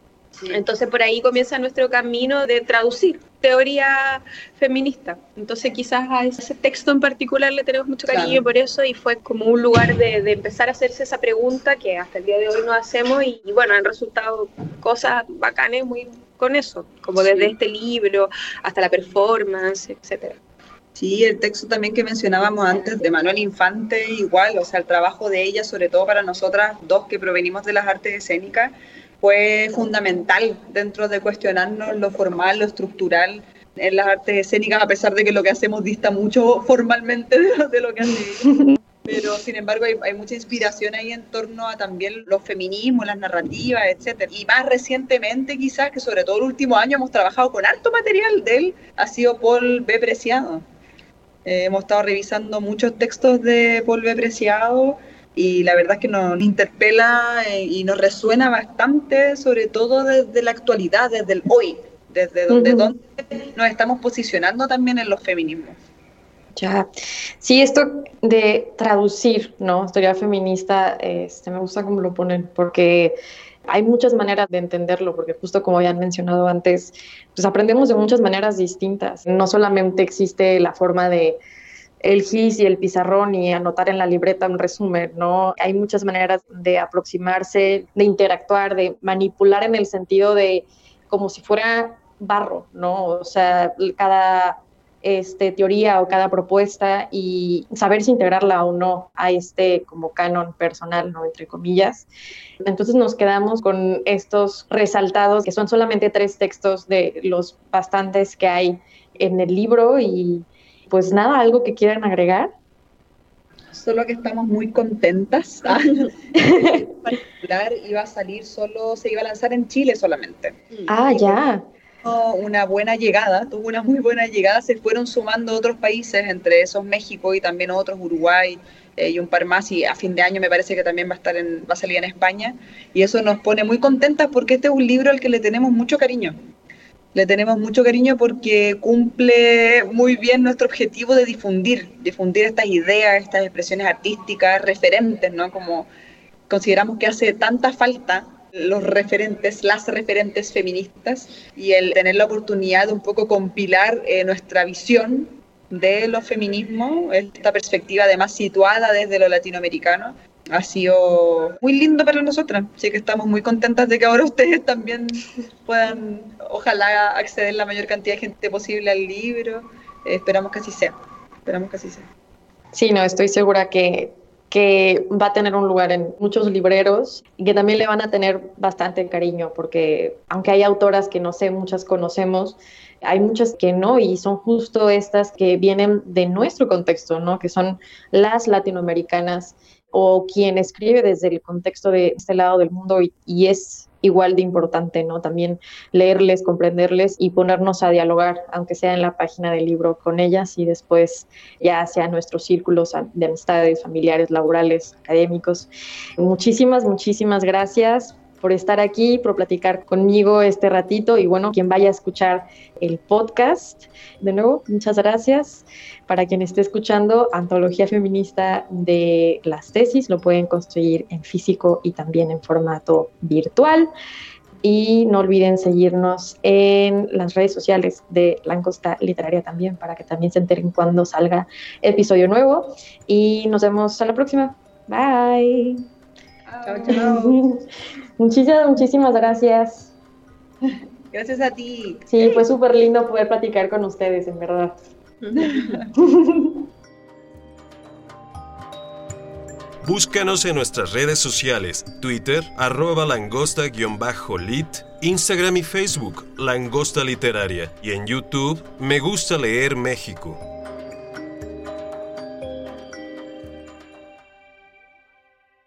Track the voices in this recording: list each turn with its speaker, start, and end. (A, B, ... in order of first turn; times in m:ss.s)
0:00.5-0:20.4 A
0:08.1-0:08.4 B
0:17.2-0:17.5 B
0:21.0-0:50.6 B
0:38.4-0:38.8 C
0:51.4-1:05.8 B
1:02.5-1:03.0 C
1:06.6-1:13.2 C
1:13.7-1:21.4 C
1:22.0-1:42.1 C
1:42.6-1:52.5 C
1:53.7-2:01.4 B
1:56.4-1:56.9 C
2:00.9-2:01.7 C
2:02.0-2:16.4 B
2:17.1-2:25.9 B
2:26.5-2:52.1 B
2:52.7-3:43.9 C
3:44.6-3:55.8 C
3:56.6-3:57.4 B
3:56.8-3:57.7 C
3:58.2-3:59.9 C
4:00.6-4:02.4 B
4:02.1-4:04.8 C
4:05.4-4:05.8 B
4:06.0-4:06.6 C
4:09.8-4:20.4 D